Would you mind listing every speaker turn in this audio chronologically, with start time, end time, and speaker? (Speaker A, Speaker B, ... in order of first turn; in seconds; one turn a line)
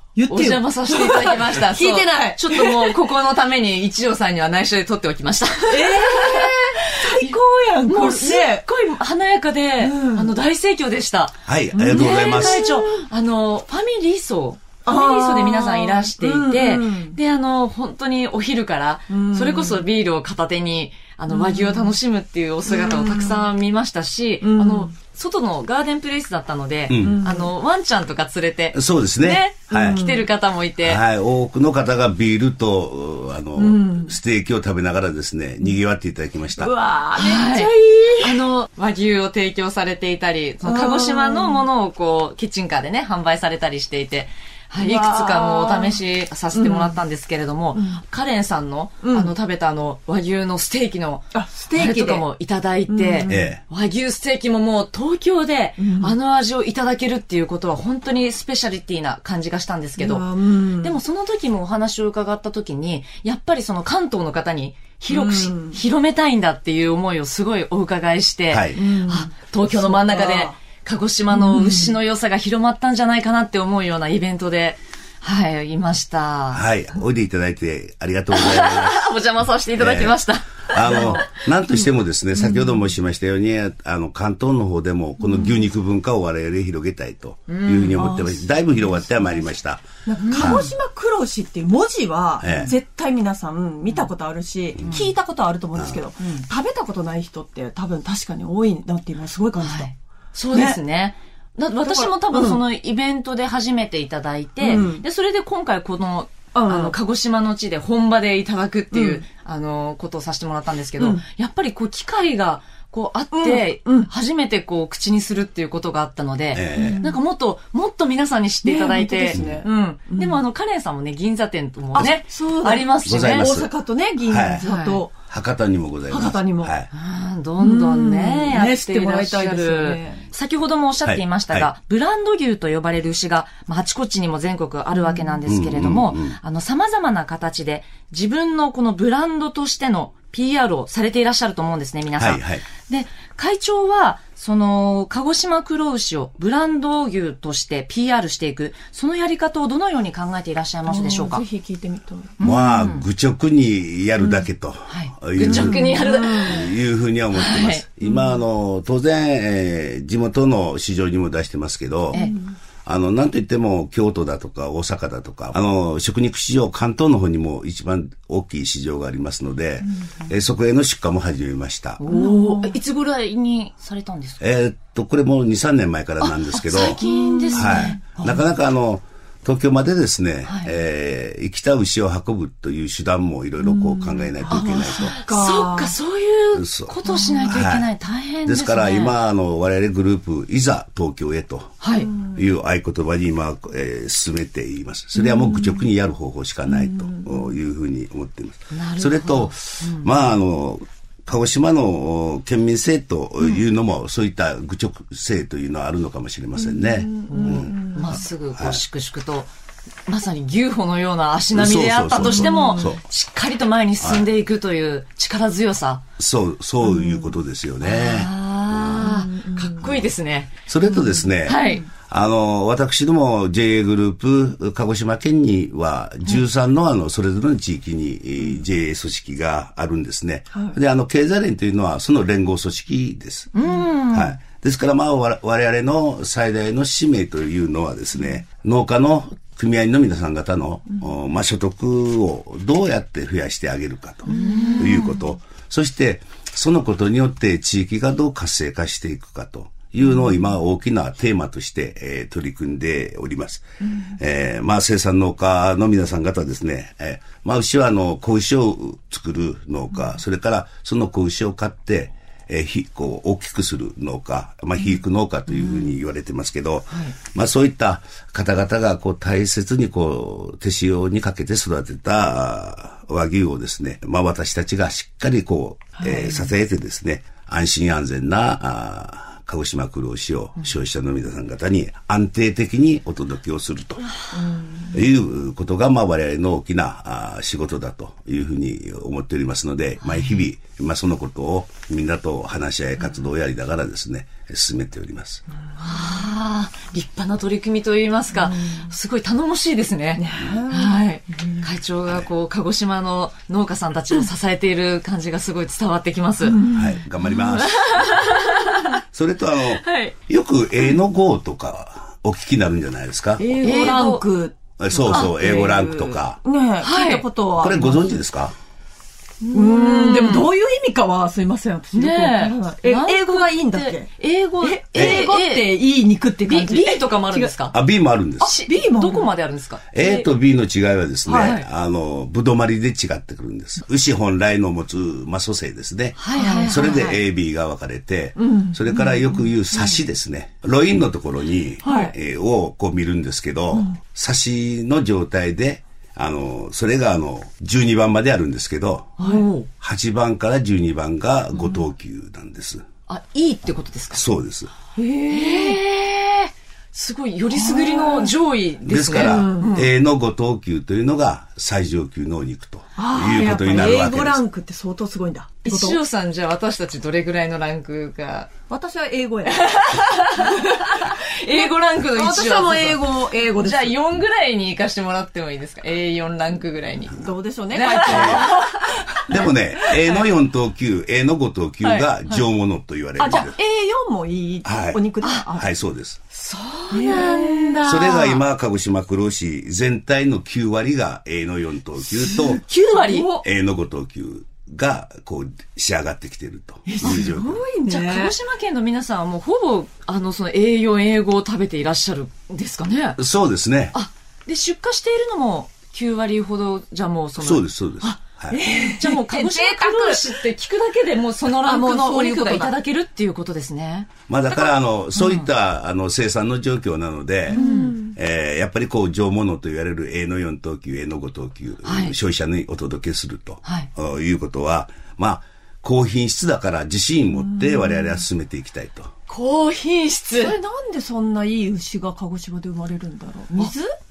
Speaker A: 0.1-3.0
Speaker B: 0.3-31.0
Speaker A: 5.7-8.7
Speaker A: 9.8-10.3
Speaker C: 11.4-12.8
Speaker A: 11.9-12.8
Speaker A: 14.8-17.2
Speaker A: 19.1-19.8
Speaker A: 21.3-21.9
Speaker A: 22.7-23.5
Speaker A: 24.4-24.9
Speaker C: 26.9-27.2
Speaker A: 27.0-27.5
Speaker C: 28.7-30.0
Speaker A: 29.7-30.3
Speaker C: 30.8-36.7
Speaker A: 33.5-34.1
Speaker A: 36.6-38.4
Speaker B: 37.1-60.2
Speaker A: 40.6-41.6
Speaker A: 44.8-46.0
Speaker A: 46.5-47.0
Speaker A: 47.7-48.0
Speaker A: 49.0-49.3
Speaker A: 51.3-52.2
Speaker A: 52.9-53.5
Speaker C: 53.3-53.6
Speaker A: 55.8-56.1
Speaker A: 60.0-61.0
Speaker B: 60.8-76.6
Speaker A: 65.1-65.8
Speaker C: 68.5-68.8
Speaker A: 68.7-70.5
Speaker A: 71.3-71.9
Speaker C: 76.5-79.1
Speaker B: 78.3-81.4
Speaker C: 79.8-90.7
Speaker A: 82.4-82.7
Speaker B: 87.5-88.0
Speaker A: 88.0-89.5
Speaker A: 90.0-99.9
Speaker B: 90.3-90.7
Speaker C: 92.4-92.7
Speaker C: 95.7-96.0
Speaker B: 99.6-123.6
Speaker A: 100.5-100.8
Speaker A: 101.9-102.6
Speaker A: 104.6-105.0
Speaker A: 106.5-107.0
Speaker A: 108.9-109.2
Speaker A: 111.0-111.2
Speaker A: 113.3-114.1
Speaker C: 116.5-117.0
Speaker A: 116.7-117.2
Speaker A: 118.6-120.4
Speaker C: 119.3-119.6
Speaker A: 121.9-125.1
Speaker C: 123.0-123.7
Speaker C: 124.2-124.6
Speaker B: 124.6-125.0
Speaker C: 125.3-126.9
Speaker A: 126.1-126.8
Speaker B: 126.9-151.4
Speaker A: 127.6-130.2
Speaker C: 131.0-131.7
Speaker A: 135.0-135.4
Speaker C: 135.4-136.4
Speaker C: 142.2-142.6
Speaker A: 150.9-152.3
Speaker B: 152.4-153.0
Speaker C: 152.4-162.2
Speaker B: 154.9-156.7
Speaker A: 155.4-156.7
Speaker B: 157.3-157.9
Speaker A: 158.0-158.3
Speaker B: 162.1-162.4
Speaker A: 162.1-162.6
Speaker C: 162.8-172.0
Speaker B: 172.0-174.4
Speaker A: 172.0-172.8
Speaker C: 174.4-177.0
Speaker B: 176.2-178.4
Speaker A: 176.8-178.0
Speaker C: 177.5-185.2
Speaker B: 180.4-180.7
Speaker A: 183.6-185.9
Speaker B: 184.5-189.1
Speaker C: 186.5-186.9
Speaker A: 187.1-187.5
Speaker C: 187.4-187.9
Speaker C: 188.4-208.8
Speaker B: 191.8-192.1
Speaker A: 192.0-192.4
Speaker A: 195.2-195.9
Speaker A: 196.7-197.5
Speaker B: 198.7-200.1
Speaker A: 206.6-208.2
Speaker B: 207.3-209.5
Speaker B: 210.1-216.0
Speaker C: 211.5-213.0
Speaker A: 212.2-212.9
Speaker C: 214.0-214.3
Speaker C: 216.2-219.1
Speaker A: 216.8-217.3
Speaker B: 217.8-220.5
Speaker A: 219.0-219.8
Speaker C: 219.8-220.1
Speaker C: 220.7-233.5
Speaker A: 220.9-221.8
Speaker B: 221.4-221.8
Speaker A: 230.5-230.8
Speaker B: 233.5-234.4
Speaker C: 234.1-284.2
Speaker A: 244.2-245.0
Speaker B: 244.2-245.2
Speaker B: 265.5-265.9
Speaker A: 276.0-276.5
Speaker A: 284.4-284.9
Speaker C: 284.8-295.4
Speaker B: 290.0-290.4
Speaker B: 295.8-306.6
Speaker A: 298.4-298.9
Speaker A: 300.1-301.6
Speaker A: 306.4-307.0
Speaker C: 306.7-308.3
Speaker B: 307.5-309.0
Speaker C: 309.1-313.4
Speaker B: 309.7-310.1
Speaker A: 313.4-318.2
Speaker B: 313.6-314.2
Speaker C: 314.8-316.4
Speaker B: 315.1-315.7
Speaker B: 316.8-317.3
Speaker C: 317.6-318.5
Speaker B: 319.4-320.5
Speaker A: 319.5-324.1
Speaker B: 321.9-325.7
Speaker A: 324.6-327.5
Speaker C: 324.9-325.2
Speaker B: 326.4-327.7
Speaker C: 327.7-328.5
Speaker B: 328.4-329.9
Speaker A: 328.4-329.3
Speaker C: 329.9-349.1
Speaker A: 330.0-330.2
Speaker B: 331.2-331.7
Speaker B: 336.2-337.2
Speaker A: 336.3-336.8
Speaker A: 338.4-340.0
Speaker A: 341.8-342.1
Speaker B: 349.2-349.7
Speaker A: 349.2-349.5
Speaker C: 349.8-352.8
Speaker B: 353.1-354.2
Speaker C: 354.1-354.7
Speaker A: 354.9-355.8
Speaker B: 355.3-359.9
Speaker A: 357.5-358.3
Speaker C: 358.8-364.4
Speaker A: 359.1-359.8
Speaker A: 362.9-366.0
Speaker B: 365.6-368.5
Speaker A: 368.7-370.9
Speaker B: 369.5-378.9
Speaker A: 372.0-374.0
Speaker A: 377.2-380.3
Speaker C: 378.1-378.4
Speaker C: 379.2-383.5
Speaker A: 382.0-382.4
Speaker A: 383.2-385.7
Speaker C: 384.6-386.2
Speaker B: 386.3-388.4
Speaker A: 386.9-387.9
Speaker C: 387.8-392.6
Speaker B: 392.3-393.4
Speaker A: 392.5-393.4
Speaker C: 393.4-397.6
Speaker A: 396.9-398.3
Speaker B: 397.8-403.2
Speaker C: 403.2-403.9
Speaker B: 403.9-415.5
Speaker C: 407.4-408.6
Speaker A: 408.5-410.4
Speaker A: 411.5-412.8
Speaker C: 414.3-429.1
Speaker A: 417.5-418.2
Speaker B: 417.5-418.0
Speaker B: 421.8-422.1
Speaker B: 423.6-423.9
Speaker A: 427.5-428.1
Speaker B: 429.3-430.6
Speaker A: 430.3-433.9